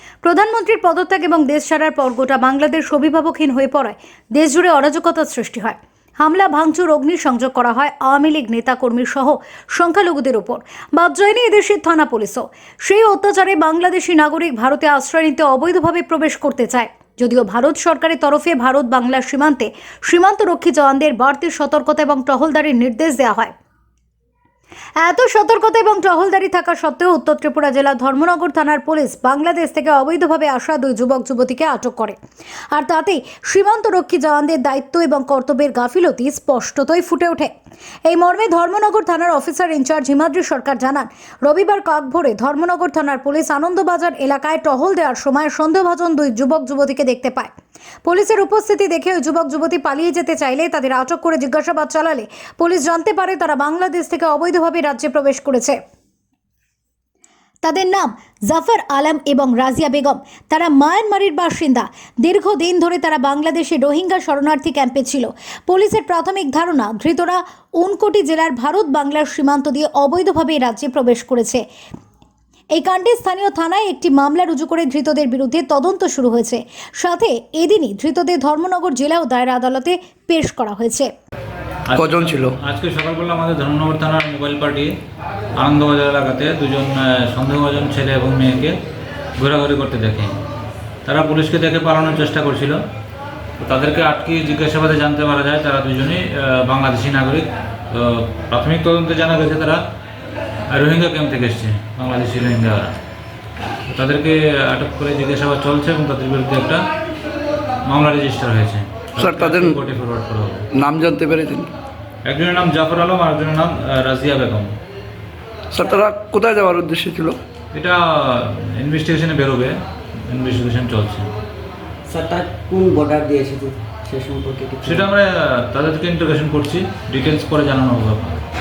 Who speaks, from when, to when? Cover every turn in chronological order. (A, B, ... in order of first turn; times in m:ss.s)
0:00.2-0:23.5 A
0:25.0-0:32.2 A
0:32.7-0:37.5 A
0:38.0-0:47.5 A
0:48.0-0:55.8 A
0:57.6-1:11.6 A
1:12.7-1:21.1 A
1:21.9-1:24.9 B
1:21.9-1:22.5 C
1:25.6-1:28.8 B
1:29.4-1:30.4 B
1:31.0-1:32.8 B
1:33.6-1:39.8 B
1:40.7-1:43.0 B
1:43.9-1:46.8 B
1:47.9-1:50.6 B
1:49.2-1:49.8 C
1:50.7-1:51.7 C
1:52.2-1:54.7 B
1:55.7-1:57.4 C
1:57.7-2:01.3 B
2:02.1-2:05.1 D
2:04.8-2:08.4 B